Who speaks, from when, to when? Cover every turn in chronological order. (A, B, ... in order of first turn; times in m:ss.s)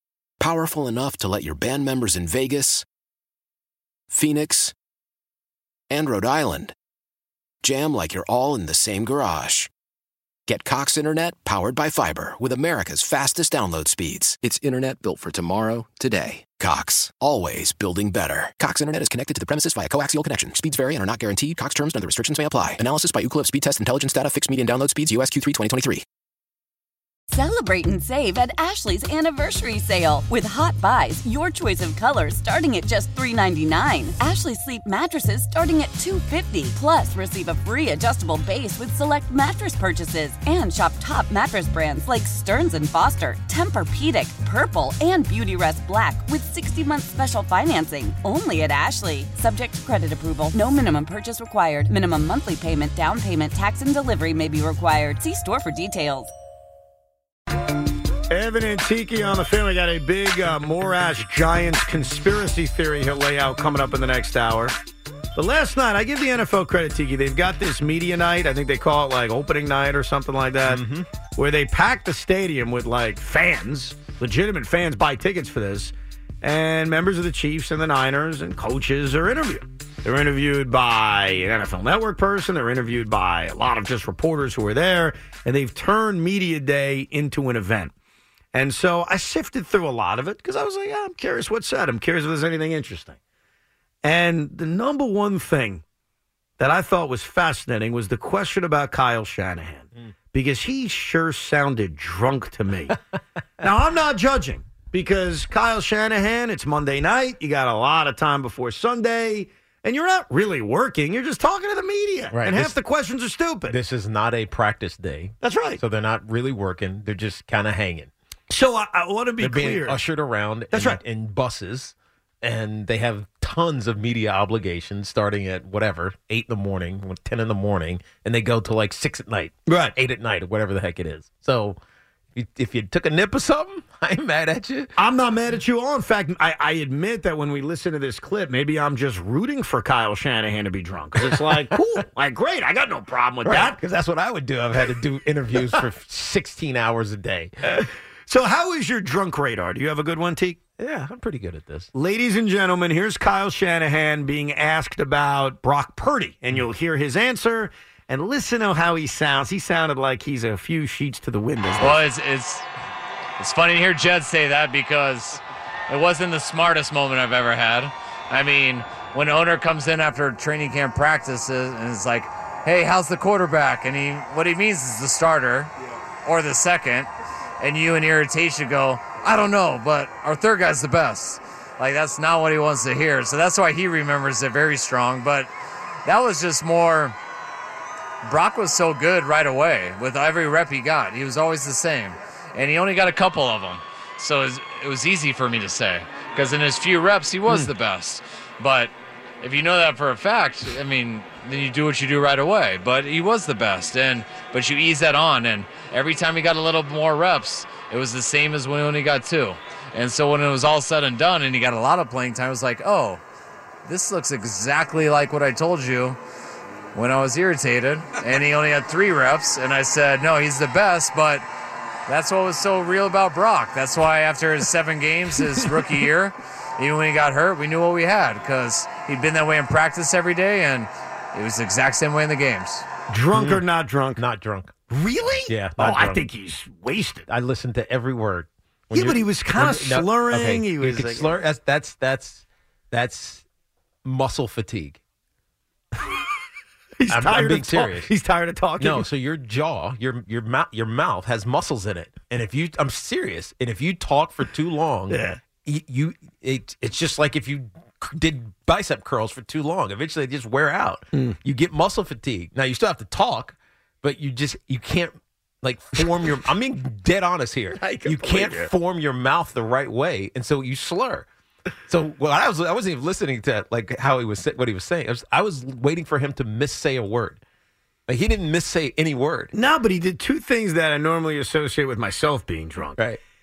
0:00.4-0:02.8 A
0:04.1-0:04.7 A
0:05.9-0:06.7 A
0:07.6-0:09.7 A
0:10.5-0:26.0 A
0:27.3-0:56.3 B
0:58.3-1:04.7 C
1:05.4-1:10.8 C
1:10.6-1:11.1 D
1:11.3-1:27.9 C
1:28.5-1:33.2 C
1:34.0-1:35.8 C
1:36.6-1:43.0 C
1:43.6-1:53.8 C
1:52.3-1:52.8 D
1:53.7-1:58.1 D
1:55.4-1:55.8 C
1:58.5-2:00.0 C
1:59.4-2:11.8 D
2:00.7-2:01.0 C
2:09.7-2:09.9 C
2:12.3-2:14.9 D
2:15.0-2:23.8 C
2:21.3-2:21.7 D
2:23.4-2:27.8 D
2:27.8-2:30.6 C
2:30.8-2:31.9 D
2:31.9-2:42.1 C
2:41.8-2:42.7 E
2:43.4-2:55.7 E
2:56.2-2:57.1 E
2:57.6-3:05.5 E
3:06.0-3:07.1 E
3:08.2-3:33.2 E
3:33.8-3:36.2 E
3:36.9-3:41.4 E
3:42.1-3:52.8 E
3:53.1-3:54.2 C
3:53.3-3:53.6 D
3:54.2-3:54.7 D
3:54.9-3:57.2 C
3:55.5-3:56.2 D
3:57.3-4:03.4 D
3:58.9-4:01.4 C
4:04.0-4:05.0 D
4:07.0-4:09.1 C
4:07.1-4:08.1 D
4:08.8-4:31.2 D
4:15.1-4:15.4 C
4:26.0-4:26.4 C
4:27.7-4:28.7 C
4:31.9-4:37.4 D
4:38.1-4:39.5 D
4:39.5-4:43.0 C